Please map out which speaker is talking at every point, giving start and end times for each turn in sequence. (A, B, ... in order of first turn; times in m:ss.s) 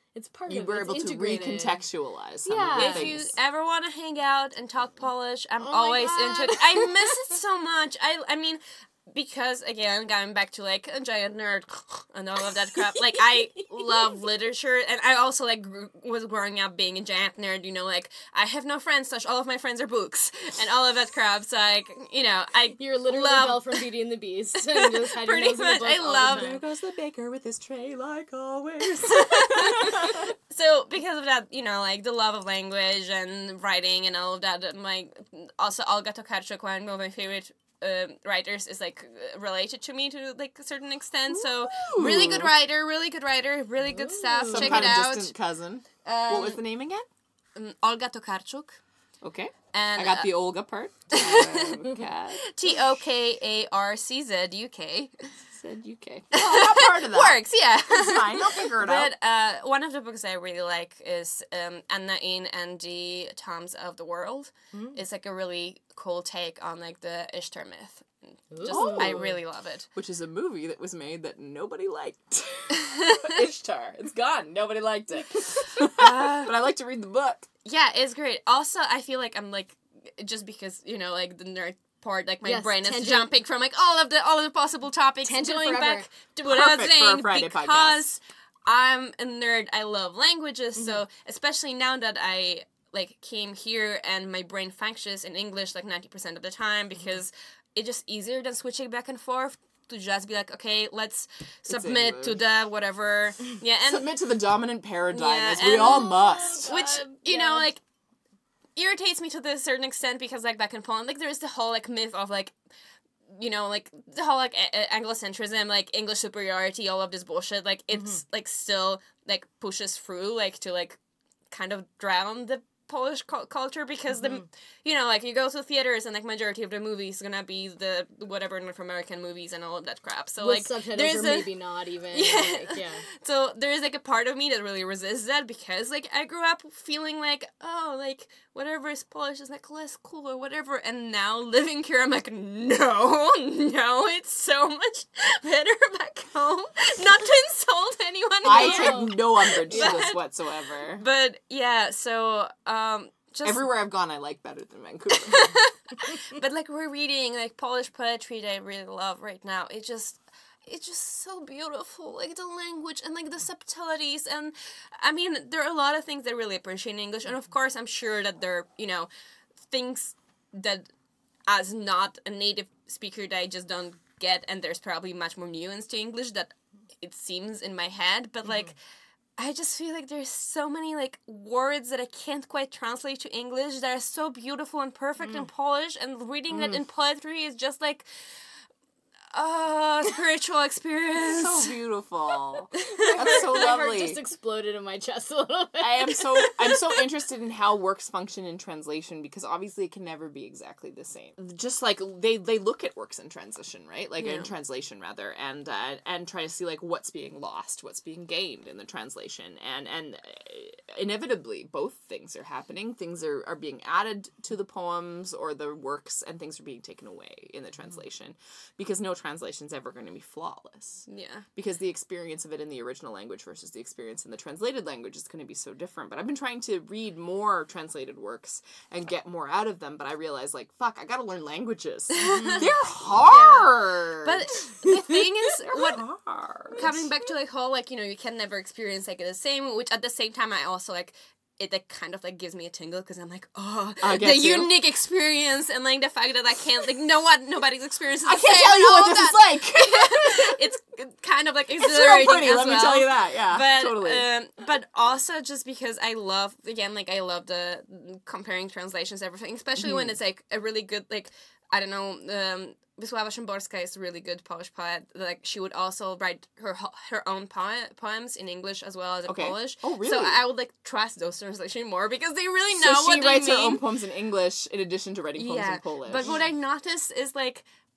0:00.1-0:01.8 A
0:00.5-0:03.3 B
0:02.4-0:03.1 A
0:02.7-0:23.8 C
0:05.6-0:07.1 A
0:12.9-0:14.0 A
0:22.8-0:26.6 A
0:24.7-0:26.5 C
0:26.2-0:30.3 B
0:28.8-0:45.4 C
0:41.3-0:42.5 B
0:43.8-0:45.0 A
0:44.5-0:47.0 B
0:46.0-0:46.6 C
0:47.6-0:48.8 C
0:49.2-0:52.4 B
0:49.7-0:50.3 C
0:51.1-0:51.8 C
0:52.4-0:55.3 C
0:55.4-0:59.1 B
0:56.3-1:08.1 C
1:08.5-1:09.3 A
1:08.6-1:09.9 C
1:08.6-1:09.3 B
1:09.9-1:17.5 B
1:12.8-1:13.3 C
1:15.9-1:16.5 C
1:17.6-1:44.1 C
1:22.4-1:23.3 A
1:25.2-1:26.1 A
1:26.4-1:28.0 B
1:41.7-1:42.4 B
1:43.9-1:46.7 B
1:45.1-1:47.8 C
1:46.2-1:47.7 A
1:48.8-1:52.5 C
1:53.3-2:01.0 C
2:01.5-2:11.5 C
2:10.4-2:13.0 A
2:12.1-2:30.2 C
2:28.4-2:30.0 A
2:28.4-2:31.0 B
2:30.9-2:33.6 C
2:33.4-2:35.6 B
2:35.1-2:49.1 C
2:49.7-2:50.9 C
2:51.5-2:58.7 C
2:59.4-3:08.1 C
3:06.5-3:06.8 B
3:09.3-3:11.7 C
3:11.3-3:14.2 B
3:12.8-3:13.4 C
3:12.9-3:16.9 A
3:15.8-3:41.0 B
3:24.2-3:24.5 C
3:41.1-3:41.4 C
3:41.6-3:57.1 B
3:52.1-3:56.0 C
3:52.2-3:52.7 A
3:56.7-4:33.8 C
4:04.0-4:04.7 B
4:08.2-4:10.6 B
4:11.8-4:14.2 B
4:19.8-4:20.2 B
4:29.2-4:30.4 B
4:32.7-4:36.4 B
4:35.4-4:37.6 C